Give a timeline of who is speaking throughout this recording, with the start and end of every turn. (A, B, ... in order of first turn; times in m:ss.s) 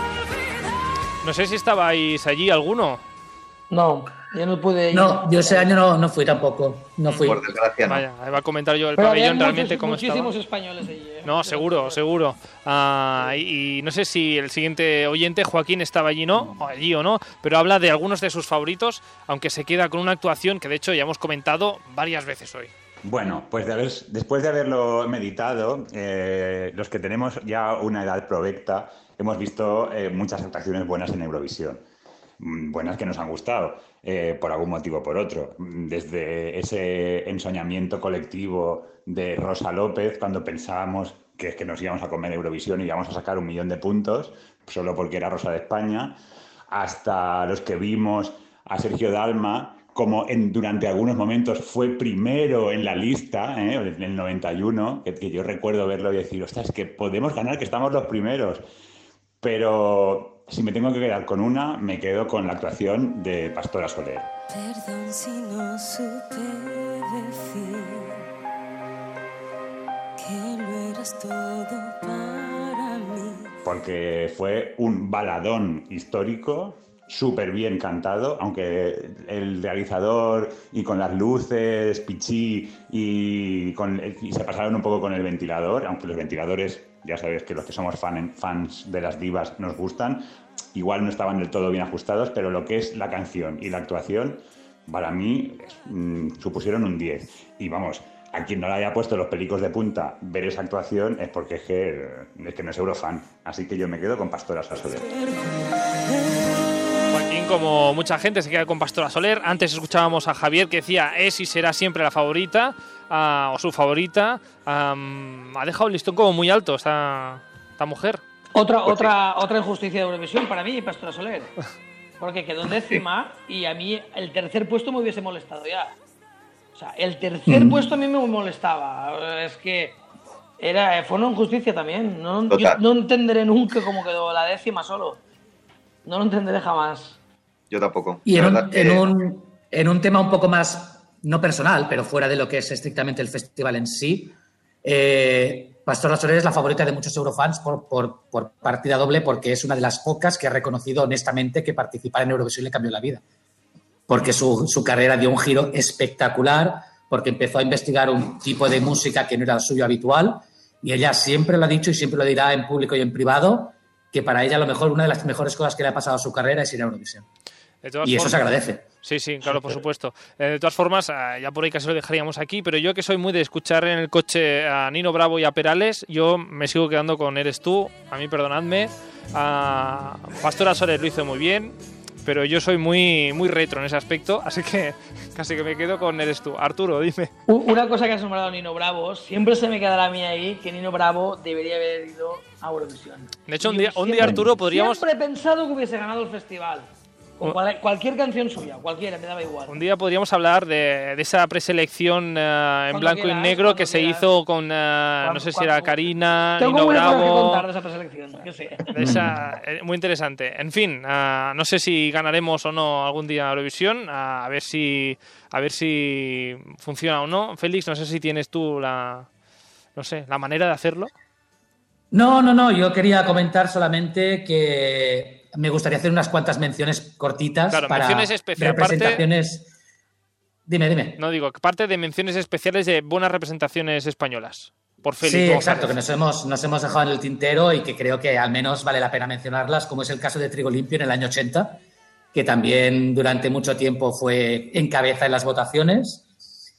0:01.2-0:03.0 A
0:03.7-0:05.7 B
0:04.9-0:07.4 C
0:07.1-0:07.3 A
0:07.2-0:08.0 D
0:07.8-0:10.3 A
0:09.0-0:12.0 B
0:11.2-0:22.7 A
0:23.0-0:31.8 E
0:32.4-0:46.2 E
0:46.7-0:58.6 E
0:59.4-1:04.3 E
1:04.5-1:08.2 F
1:10.2-1:13.5 F
1:13.6-1:30.2 E
1:30.7-1:45.1 E
1:45.2-1:46.5 F
1:47.1-1:58.2 A
1:58.5-2:01.5 B
1:58.8-1:59.1 D
2:02.2-2:05.9 B
2:06.7-2:10.0 B
2:07.5-2:07.8 C
2:10.6-2:15.2 B
2:12.5-2:12.8 D
2:16.0-2:17.2 B
2:17.7-2:19.1 D
2:18.2-2:33.2 C
2:34.1-2:47.2 C
2:47.8-2:48.5 A
2:48.0-2:48.8 C
2:49.0-3:07.3 A
3:07.5-3:19.8 B
3:13.5-3:15.0 A
3:19.7-3:27.6 A
3:22.9-3:24.3 B
3:25.2-3:26.0 B
3:26.6-3:28.8 B
3:28.9-3:39.3 A
3:29.0-3:29.4 C
3:40.0-3:41.1 A
3:42.1-3:49.7 C
3:47.7-3:49.2 A
3:50.7-3:51.2 C
3:51.2-3:56.0 A
3:55.2-4:01.8 C
4:02.3-4:06.2 C